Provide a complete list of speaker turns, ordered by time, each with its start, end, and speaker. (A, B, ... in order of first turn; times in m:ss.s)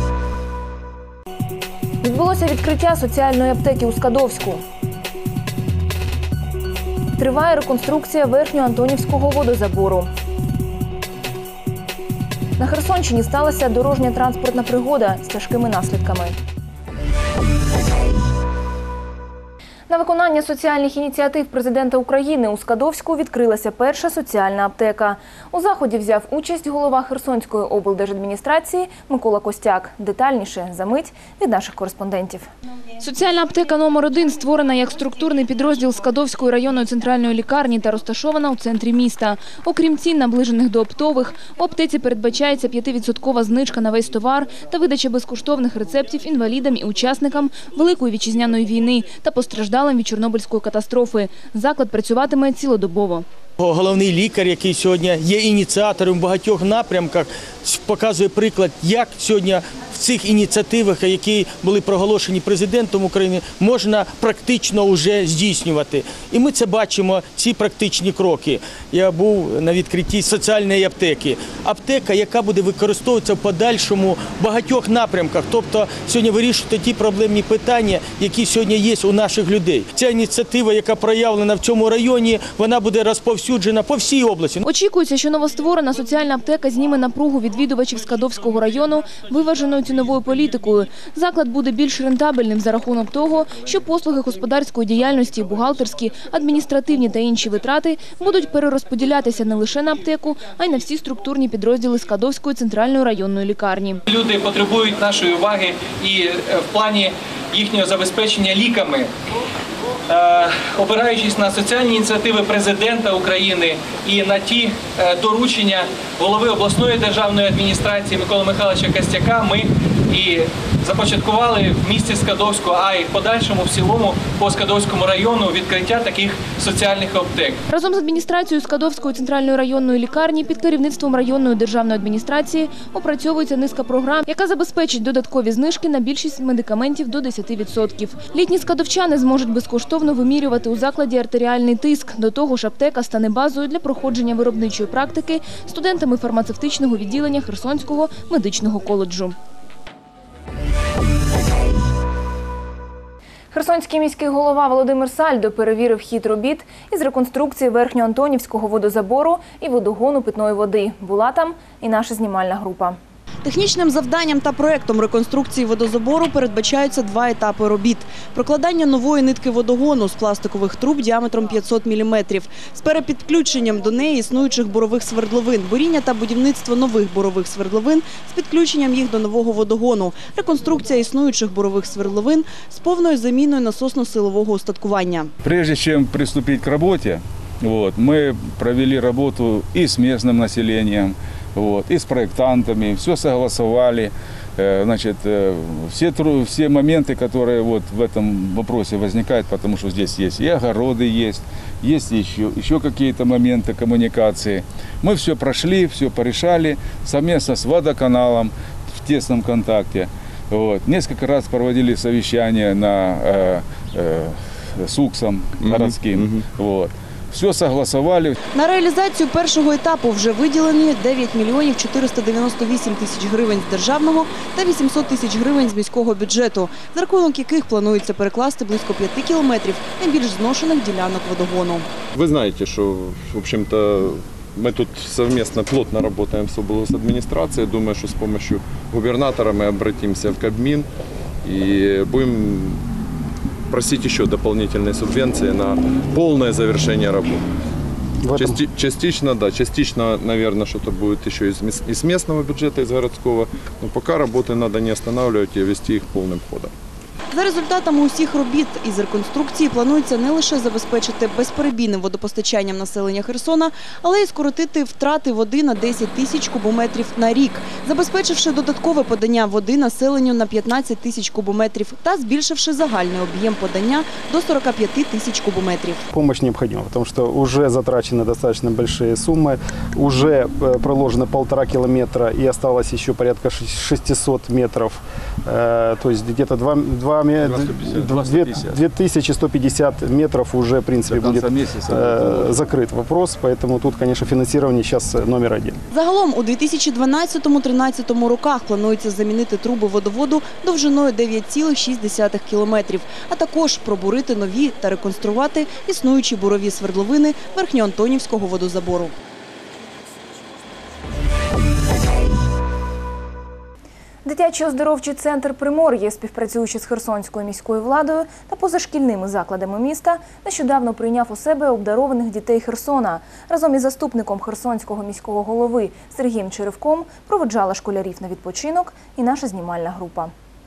0:02.0-0:04.6 A
0:07.2-0:10.1 A
0:12.6-0:16.3 A
0:19.9-0:53.2 A
0:53.6-1:24.6 B
1:24.6-1:44.0 A
1:44.1-1:49.0 C
1:50.1-2:07.6 C
2:07.7-2:29.3 A
2:33.5-2:43.0 A
2:43.4-3:05.3 D
3:05.4-3:28.5 E
3:29.0-3:38.3 E
3:35.6-3:36.4 F
3:38.5-3:51.9 D
3:52.1-4:00.9 F
4:01.4-4:02.8 F
4:03.7-4:07.4 F
4:08.2-4:08.6 G
4:08.3-4:16.7 F
4:17.3-4:36.0 D
4:36.1-4:55.8 G
4:47.4-4:48.8 E
4:51.0-4:52.6 E
4:55.9-5:09.1 D
5:14.2-5:30.3 A